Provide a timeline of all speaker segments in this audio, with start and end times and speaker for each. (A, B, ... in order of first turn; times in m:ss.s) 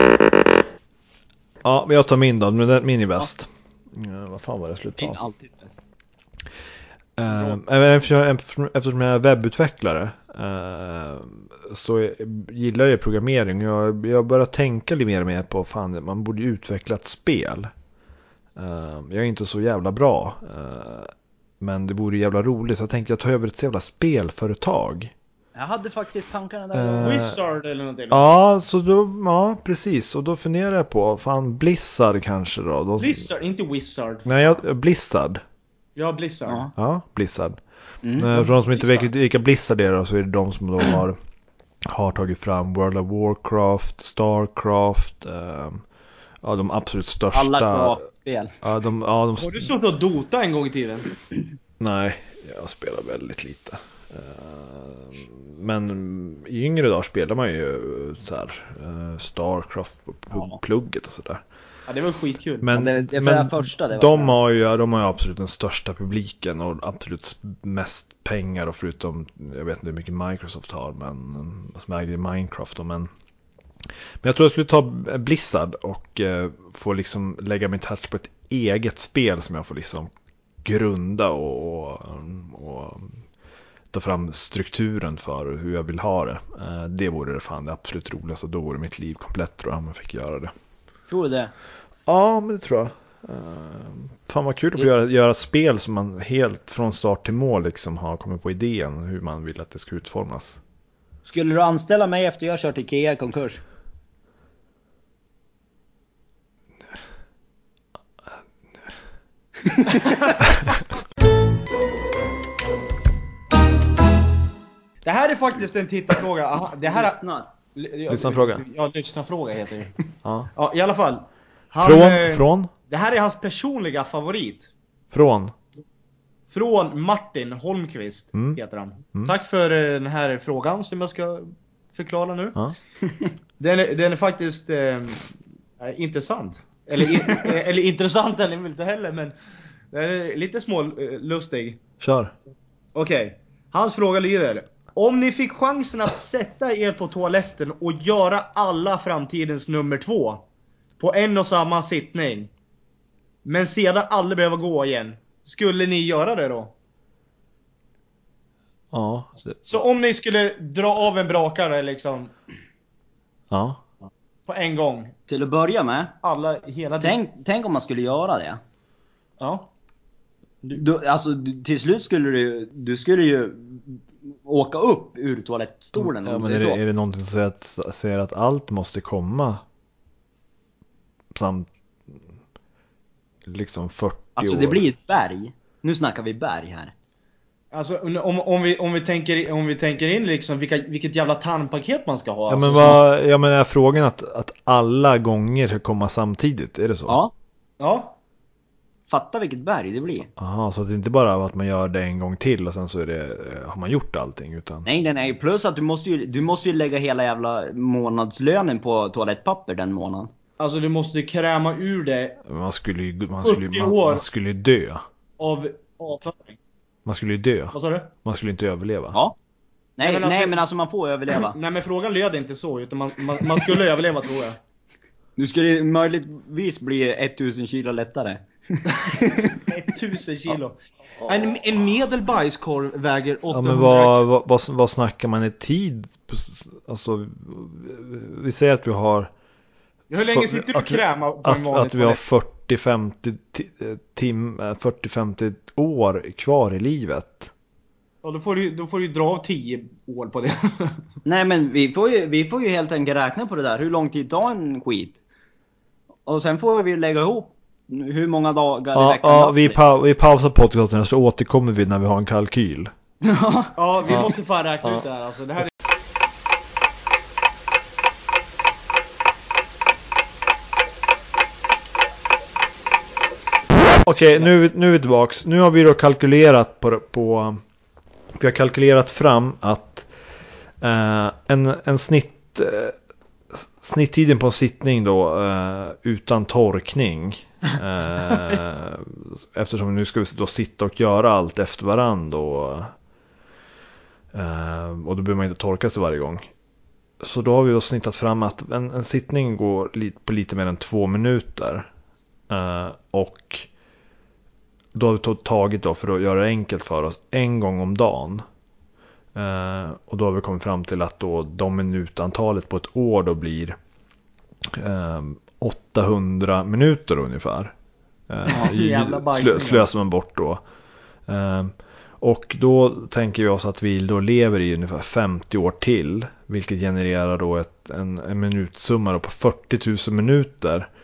0:01.6-0:05.2 A
0:05.0-0:05.8 B
0:07.2-0:17.7 A
0:07.3-0:07.6 C
0:18.6-0:25.1 A
0:25.6-0:27.3 B
0:26.7-0:27.4 A
0:27.0-0:28.3 C
0:28.1-0:33.3 A
0:33.0-0:34.6 C
0:34.3-0:35.4 A
0:36.0-0:36.7 C
0:36.5-0:36.7 B
0:36.8-0:37.6 A
0:38.0-0:39.0 B
0:38.2-0:41.2 A
0:41.9-0:45.8 A
0:46.4-0:48.0 A
0:47.3-0:48.6 B
0:48.6-0:49.7 A
0:49.4-0:51.1 C
0:51.8-1:01.4 A
1:01.9-1:02.7 C
1:02.6-1:13.1 A
1:02.7-1:04.4 B
1:14.2-1:20.1 A
1:20.6-1:23.2 A
1:23.9-1:30.5 A
1:31.1-1:31.5 B
1:32.1-1:40.6 A
1:41.2-1:43.6 B
1:49.7-1:50.2 B
1:55.0-1:57.2 C
1:56.8-1:57.5 B
1:57.8-2:00.0 C
1:58.1-1:58.6 A
2:00.2-2:00.5 A
2:00.6-2:04.7 C
2:01.8-2:02.7 A
2:05.1-2:05.5 A
2:06.5-2:12.6 C
2:13.0-2:13.3 B
2:13.6-2:19.3 C
2:17.0-2:17.4 B
2:19.9-2:21.8 C
2:22.0-2:22.3 A
2:23.0-2:30.4 C
2:31.0-2:32.5 C
2:33.4-2:36.7 C
2:38.9-2:39.6 A
2:39.6-2:42.3 C
2:43.5-2:43.8 A
2:44.5-2:45.1 C
2:45.3-2:46.2 B
2:46.2-2:47.2 C
2:47.0-2:48.6 B
2:49.4-2:49.7 C
2:50.7-2:56.8 B
2:56.0-2:59.6 A
3:01.3-3:01.7 A
3:03.5-3:04.8 A
3:04.4-3:06.9 B
3:07.7-3:13.0 C
3:12.5-3:17.2 A
3:17.1-3:17.3 B
3:17.8-3:18.2 C
3:19.1-3:20.3 B
3:20.4-3:24.9 A
3:24.8-3:30.3 B
3:30.6-3:32.4 C
3:32.4-3:35.0 A
3:33.4-3:34.2 C
3:35.4-3:36.6 C
3:37.1-3:39.2 A
3:37.7-3:38.1 C
3:40.0-3:41.6 B
3:40.0-3:40.6 C
3:41.3-3:44.6 C
3:45.4-3:49.6 B
3:49.0-3:54.2 C
3:53.5-3:59.3 A
4:00.1-4:02.2 C
4:00.2-4:07.5 A
4:08.2-4:11.0 C
4:11.2-4:15.2 B
4:16.3-4:19.8 B
4:18.9-4:22.9 A
4:23.2-4:23.8 B
4:23.8-4:25.7 C
4:34.0-4:37.6 A
4:38.4-4:40.1 A
4:40.8-4:43.0 A
4:43.5-4:52.9 A
4:54.3-4:56.5 A
4:57.2-5:01.9 A
5:02.5-5:03.7 A
5:04.9-5:08.4 A
5:09.3-5:13.8 A
5:14.7-5:17.7 A
5:18.3-5:20.6 A
5:18.5-5:19.9 C
5:21.3-5:30.9 A